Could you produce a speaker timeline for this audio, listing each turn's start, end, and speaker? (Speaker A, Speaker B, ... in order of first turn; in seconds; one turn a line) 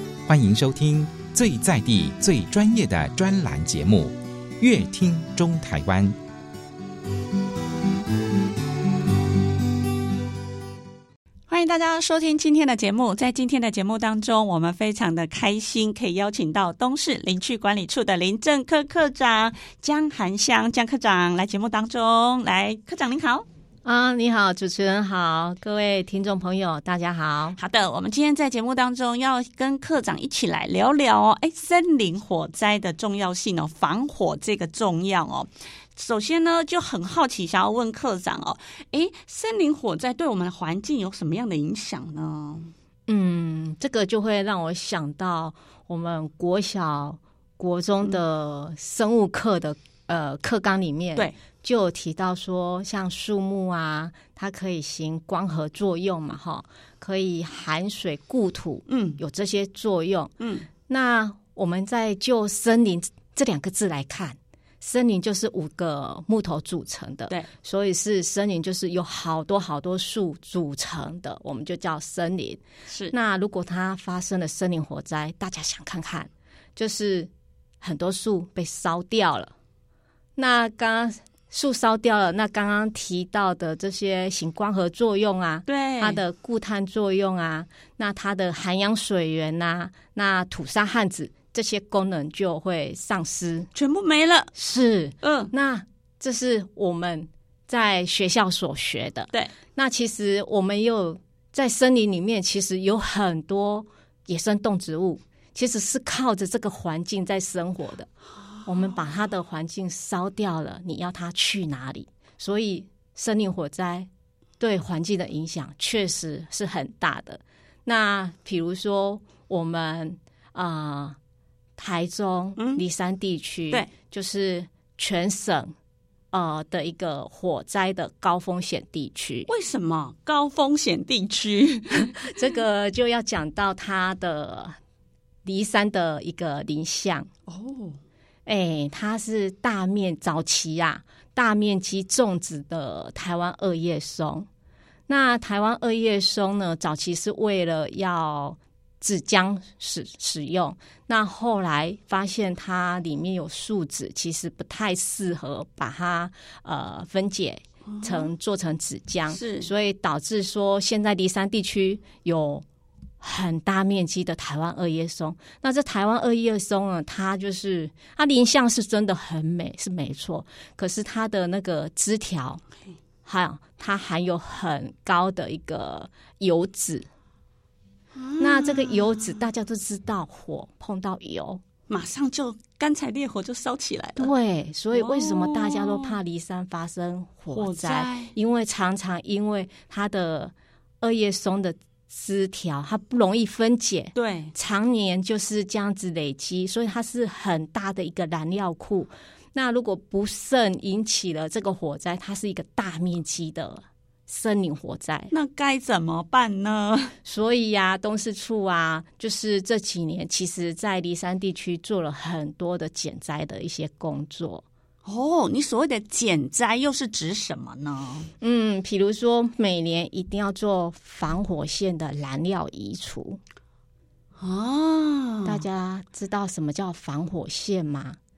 Speaker A: 0.3-6.2
Speaker B: 11.5-23.4
Speaker C: 23.8-27.6
Speaker B: 27.6-42.7
Speaker C: 43.1-60.3
Speaker B: 58.9-59.2
Speaker B: 60.4-60.7
Speaker C: 60.9-77.3
Speaker C: 77.8-79.5
Speaker C: 80.3-93.7
Speaker B: 85.7-86.2
Speaker B: 93.7-94.5
Speaker C: 94.5-108.1
Speaker B: 95.2-95.5
Speaker C: 108.6-114.1
Speaker C: 114.6-121.2
Speaker C: 121.8-125.7
Speaker B: 122.6-122.8
Speaker C: 126.3-129.5
Speaker B: 129.5-132.5
Speaker C: 132.0-134.7
Speaker C: 135.4-137.3
Speaker B: 137.5-138.0
Speaker C: 138.4-144.5
Speaker C: 145.1-162.6
Speaker B: 157.9-158.3
Speaker B: 159.3-159.7
Speaker C: 163.2-172.6
Speaker C: 173.2-177.1
Speaker B: 178.1-179.3
Speaker C: 178.4-181.6
Speaker B: 181.9-184.3
Speaker C: 184.2-205.3
Speaker B: 184.9-186.2
Speaker B: 187.5-188.3
Speaker B: 194.1-194.5
Speaker B: 205.3-207.1
Speaker C: 207.2-214.6
Speaker B: 215.0-218.3
Speaker C: 218.4-223.4
Speaker B: 224.4-225.6
Speaker C: 225.4-228.2